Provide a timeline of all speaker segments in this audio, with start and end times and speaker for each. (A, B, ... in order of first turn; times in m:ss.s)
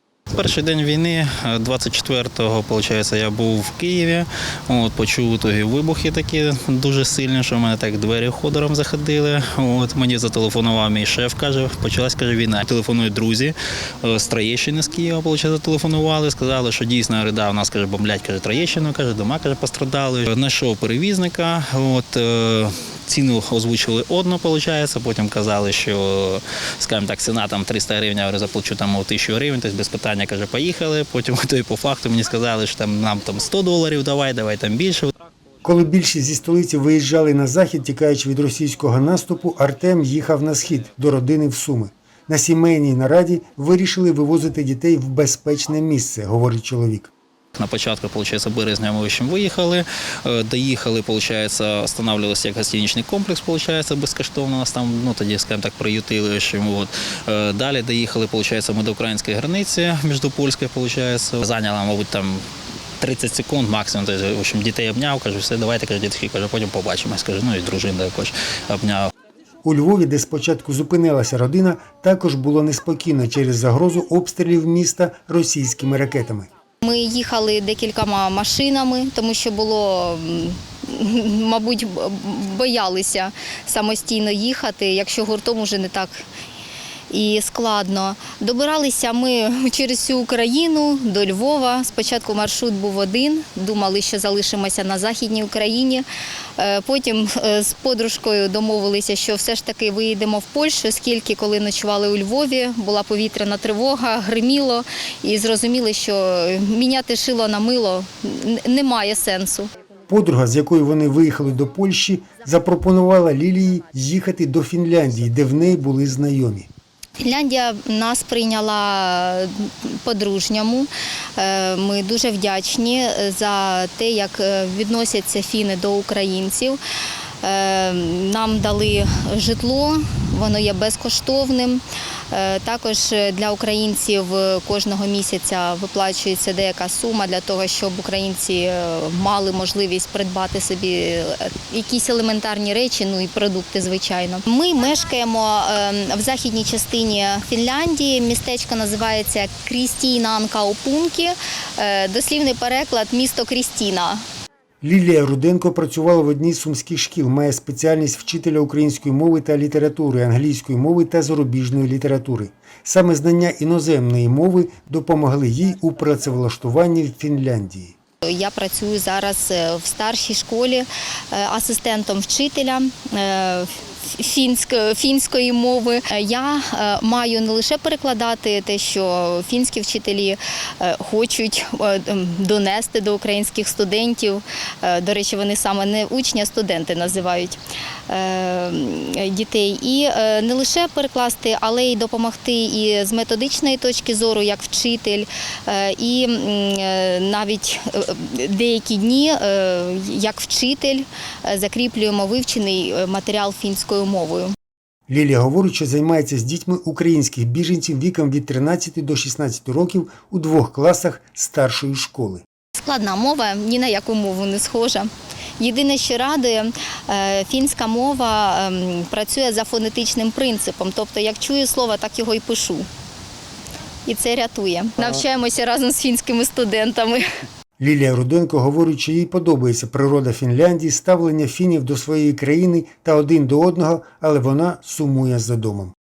0:00.4-0:35.1 A
0:35.6-0:47.1 B
0:47.6-1:02.4 A
1:03.0-1:09.1 A
1:09.6-1:16.5 B
1:16.8-1:26.2 C
1:27.1-1:36.1 C
1:36.6-1:49.7 C
1:50.1-1:56.7 B
1:57.2-2:06.8 C
2:07.4-2:34.2 C
2:34.8-2:48.0 B
2:48.2-3:07.6 C
3:08.1-3:24.5 C
3:25.1-3:32.4 B
3:32.8-3:42.9 C
3:44.1-3:47.3 C
3:47.8-3:55.9 B